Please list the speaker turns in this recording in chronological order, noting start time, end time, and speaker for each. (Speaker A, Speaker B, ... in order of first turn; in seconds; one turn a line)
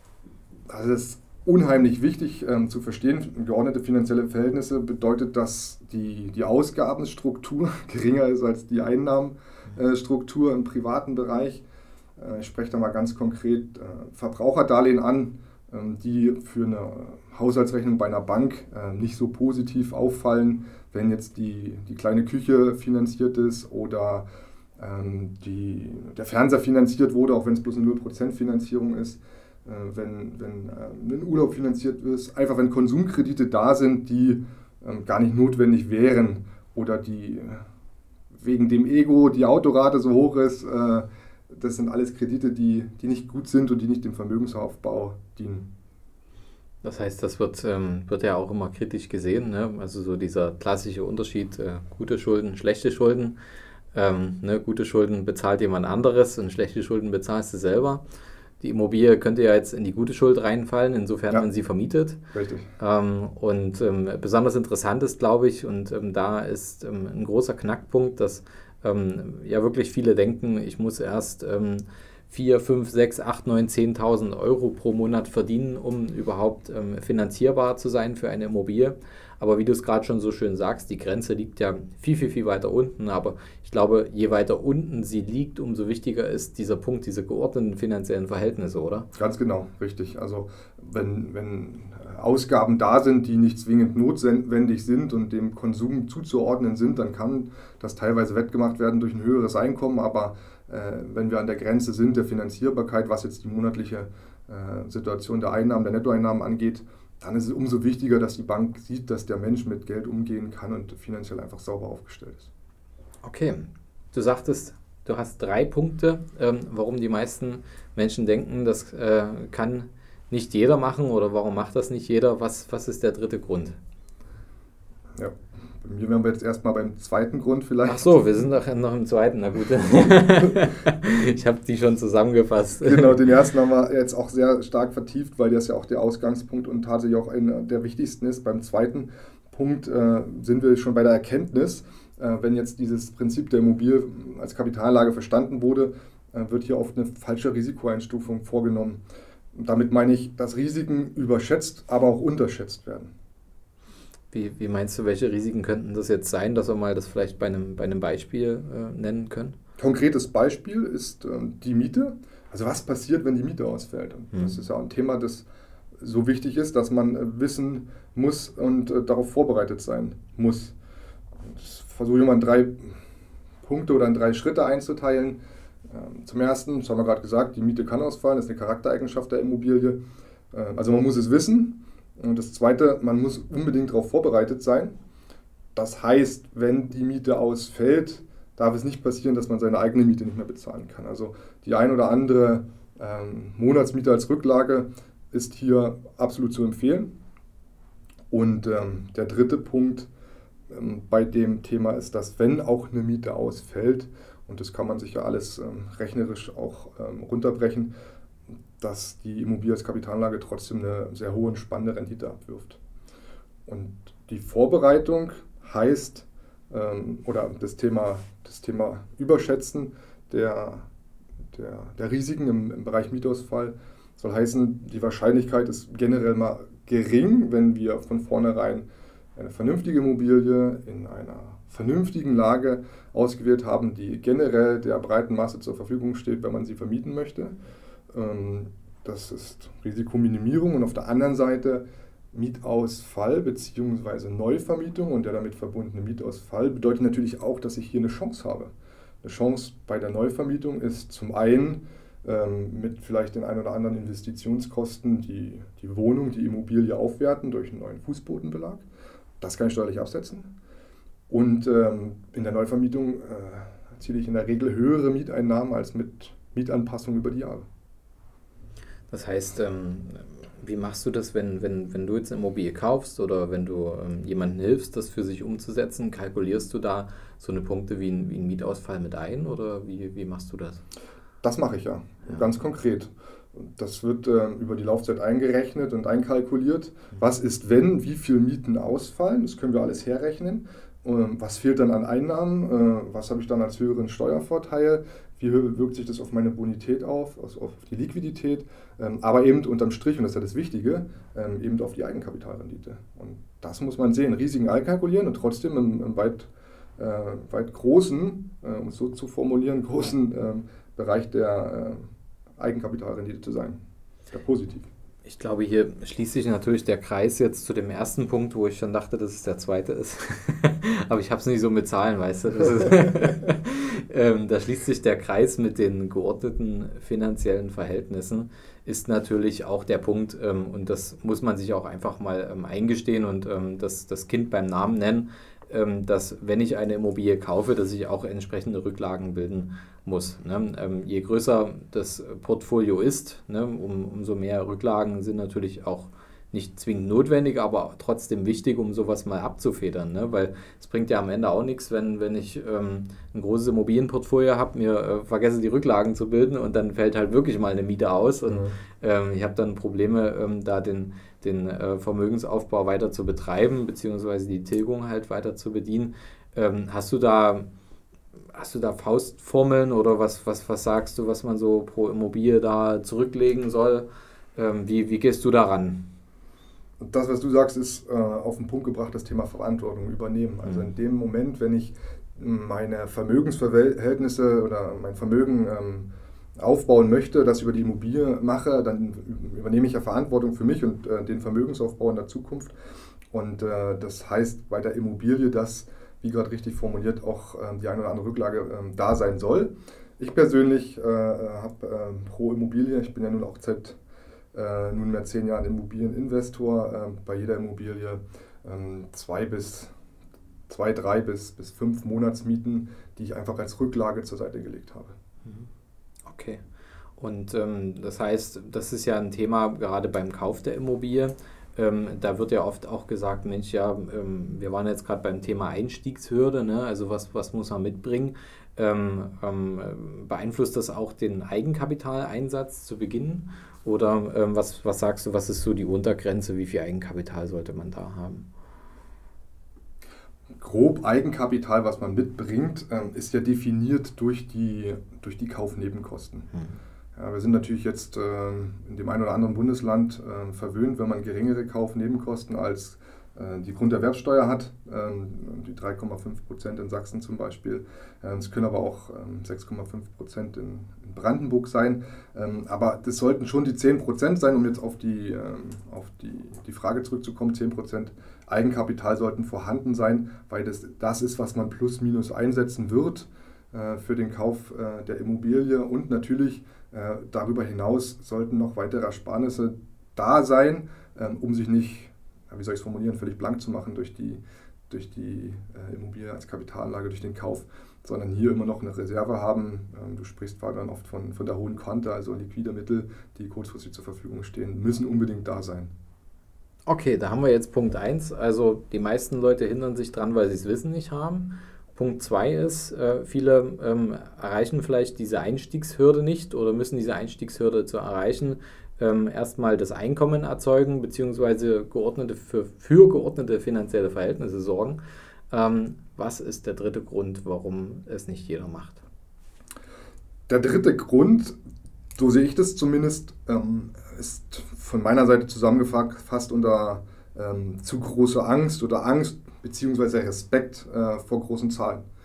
Speaker A: 0.7-11.6
Speaker A: 12.2-24.2
Speaker A: 24.8-37.6
Speaker A: 38.3-45.7
Speaker B: 46.8-53.4
Speaker B: 53.9-58.0
Speaker B: 58.6-62.2
Speaker A: 62.3-62.7
Speaker B: 62.8-89.1
Speaker A: 89.1-112.5
Speaker B: 113.2-123.8
Speaker A: 125.2-128.3
Speaker B: 127.8-133.3
Speaker A: 132.8-149.0
Speaker A: 149.6-153.1
Speaker B: 154.3-159.6
Speaker A: 159.8-165.4
Speaker A: 166.0-170.8
Speaker A: 171.4-173.0
Speaker A: 173.6-180.0
Speaker A: 180.5-185.0
Speaker A: 185.8-197.1
Speaker A: 198.3-200.1
Speaker A: 200.7-207.9
Speaker A: 208.8-212.8
Speaker A: 213.7-220.9
Speaker A: 221.5-237.6
Speaker A: 238.1-248.7
Speaker A: 249.2-258.8
Speaker A: 259.4-260.5
Speaker A: 261.3-267.7
Speaker B: 269.1-280.8
Speaker A: 281.4-313.8
Speaker A: 314.3-314.9
Speaker B: 315.2-367.7
Speaker A: 358.5-358.8
Speaker B: 368.5-376.1
Speaker A: 377.0-392.7
Speaker B: 380.6-380.9
Speaker A: 393.3-404.0
Speaker A: 404.5-409.9
Speaker A: 410.7-415.1
Speaker B: 416.3-416.6
Speaker B: 417.2-438.4
Speaker A: 440.6-446.5
Speaker B: 446.5-446.8
Speaker A: 447.2-495.9
Speaker B: 496.9-519.0
Speaker A: 520.5-521.6
Speaker A: 522.1-532.0